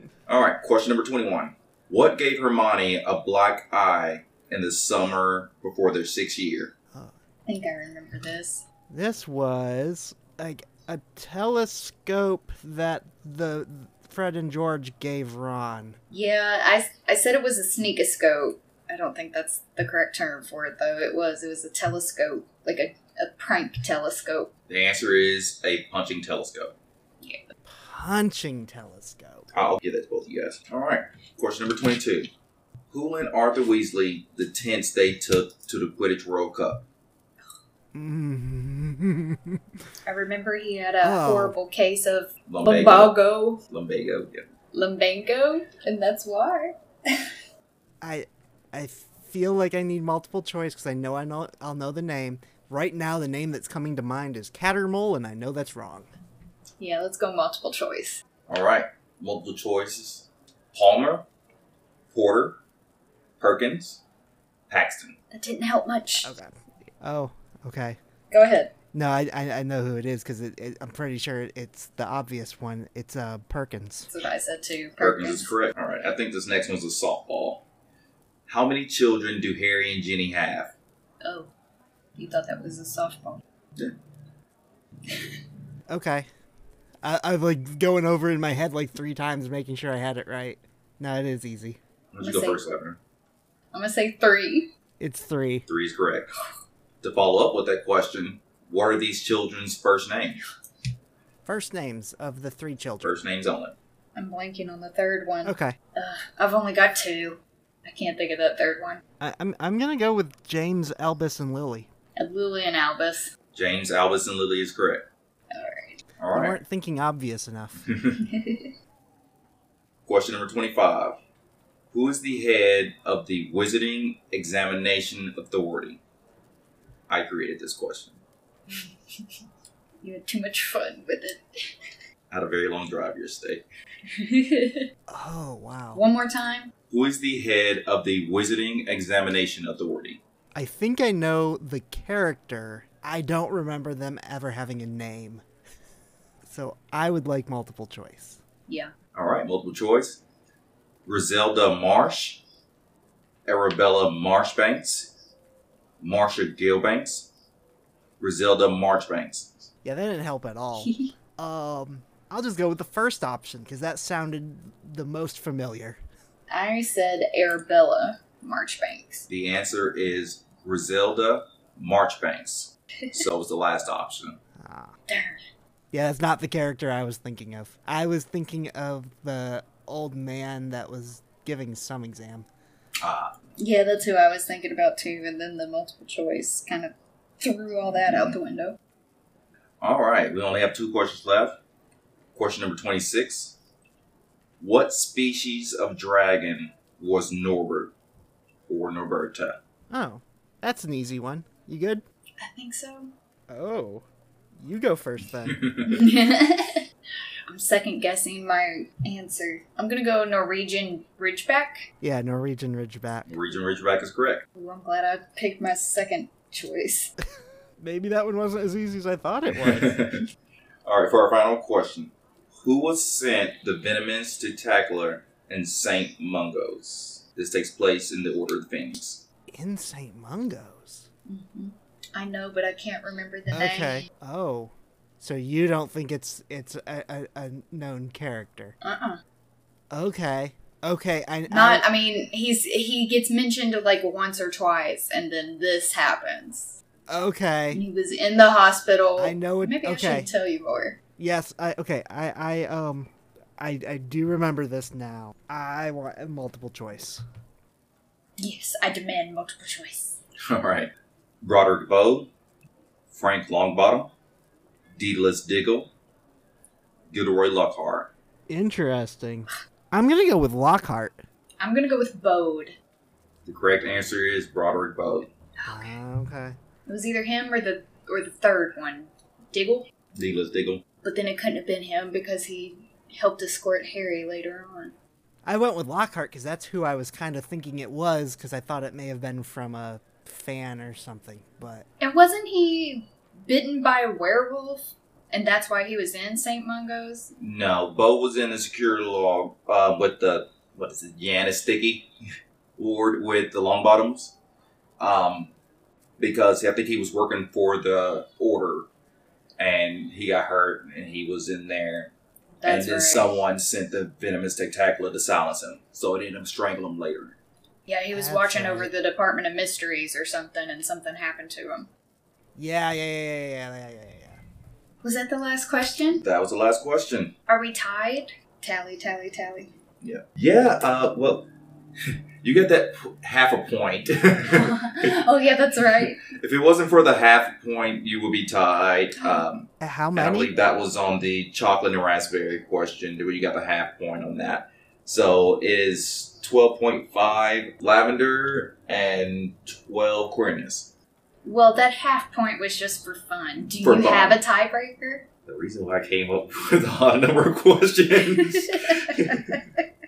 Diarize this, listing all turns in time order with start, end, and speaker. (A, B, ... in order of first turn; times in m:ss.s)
0:00.3-0:06.7 A
0:07.5-0:08.6 B
0:08.9-0:16.0 C
0:16.1-0:24.5 B
0:24.7-0:26.7 A
0:27.2-0:27.4 B
0:27.7-0:29.5 C
0:29.5-0:32.3 A
0:32.9-0:36.8 A
0:37.9-0:39.6 C
0:40.0-0:43.6 B
0:41.0-0:41.6 C
0:42.5-0:43.1 A
0:43.7-0:44.4 A
0:44.7-0:47.4 B
0:48.0-0:56.1 C
0:56.8-0:58.2 B
0:58.5-1:01.2 A
1:02.1-1:02.6 A
1:03.4-1:04.0 A
1:04.7-1:05.2 A
1:05.3-1:06.3 B
1:06.2-1:08.0 C
1:08.3-1:08.7 B
1:08.9-1:14.1 C
1:14.1-1:15.5 B
1:15.0-1:17.6 A
1:18.5-1:20.7 A
1:21.2-1:21.5 B
1:22.2-1:23.4 B
1:25.1-1:25.4 B
1:25.9-1:26.3 C
1:27.0-1:31.8 C
1:32.1-1:33.0 A
1:32.2-1:32.6 B
1:33.7-1:34.7 B
1:35.0-1:35.7 C
1:35.7-1:36.3 A
1:37.0-1:40.4 A
1:41.4-1:43.2 C
1:43.0-1:43.8 A
1:44.1-1:49.0 B
1:45.4-1:45.8 C
1:49.2-1:51.9 C
1:52.2-1:53.3 B
1:53.5-1:55.0 A
1:55.5-1:56.0 B
1:56.2-1:56.6 A
1:56.3-1:57.9 C
1:57.8-1:58.2 A
1:58.2-1:58.7 B
2:00.0-2:01.2 A
2:01.9-2:06.0 A
2:07.1-2:08.2 A
2:10.0-2:11.9 B
2:12.3-2:13.6 A
2:14.0-2:14.9 B
2:15.1-2:16.0 C
2:15.9-2:16.7 B
2:16.9-2:20.2 A
2:20.5-2:25.4 C
2:26.4-2:28.4 C
2:29.1-2:30.2 A
2:31.0-2:32.4 A
2:33.4-2:35.1 A
2:36.0-2:37.3 A
2:38.2-2:39.7 A
2:39.8-2:46.0 C
2:40.8-2:41.1 B
2:46.5-2:49.2 B
2:49.3-2:54.4 A
2:54.6-2:54.9 C
2:55.1-2:55.4 B
2:55.9-3:02.5 C
3:03.0-3:03.4 A
3:03.6-3:08.8 B
3:07.9-3:08.4 A
3:09.8-3:11.6 A
3:12.3-3:13.6 A
3:14.6-3:17.9 A
3:18.7-3:19.6 A
3:19.9-3:22.0 C
3:22.4-3:23.1 B
3:23.5-3:24.0 C
3:24.6-3:25.6 C
3:25.4-3:26.1 A
3:25.8-3:26.8 B
3:27.5-3:31.9 B
3:32.0-3:33.4 C
3:33.3-3:34.4 A
3:34.5-3:37.1 B
3:37.8-3:40.0 C
3:39.5-3:40.2 A
3:40.8-3:49.2 A
3:49.5-3:51.1 C
3:51.3-3:54.1 B
3:53.5-3:58.7 C
3:58.8-3:59.2 B
3:59.9-4:01.8 C
4:01.5-4:06.8 B
4:07.1-4:07.8 C
4:07.7-4:11.0 B
4:09.2-4:10.3 C
4:11.2-4:17.2 C
4:18.4-4:20.2 B
4:20.4-4:20.9 A
4:21.4-4:22.3 A
4:23.1-4:24.1 A
4:25.0-4:25.9 A
4:27.1-4:28.1 A
4:28.5-4:31.2 C
4:31.6-4:32.8 B
4:33.4-4:35.3 A
4:35.6-4:35.9 B
4:35.6-4:36.6 C
4:36.8-4:39.9 B
4:40.1-4:40.8 A
4:41.0-4:44.9 B
4:45.4-4:51.8 C
4:52.0-4:57.3 B
4:57.4-5:02.1 A
5:02.8-5:04.3 A
5:05.0-5:05.5 A
5:06.2-5:08.9 A
5:09.6-5:12.1 A
5:12.6-5:13.4 B
5:12.6-5:17.4 A
5:17.9-5:21.9 B
5:18.1-5:18.9 C
5:22.6-5:24.4 C
5:25.0-5:26.2 B
5:26.2-5:27.3 A
5:27.5-5:29.7 B
5:30.0-5:31.4 A
5:32.0-5:35.2 A
5:34.5-5:36.2 B
5:36.0-5:50.9 A
5:39.8-5:40.5 C
5:51.4-5:55.2 B
5:53.8-5:54.4 A
5:55.4-5:59.6 A
5:58.2-5:59.8 B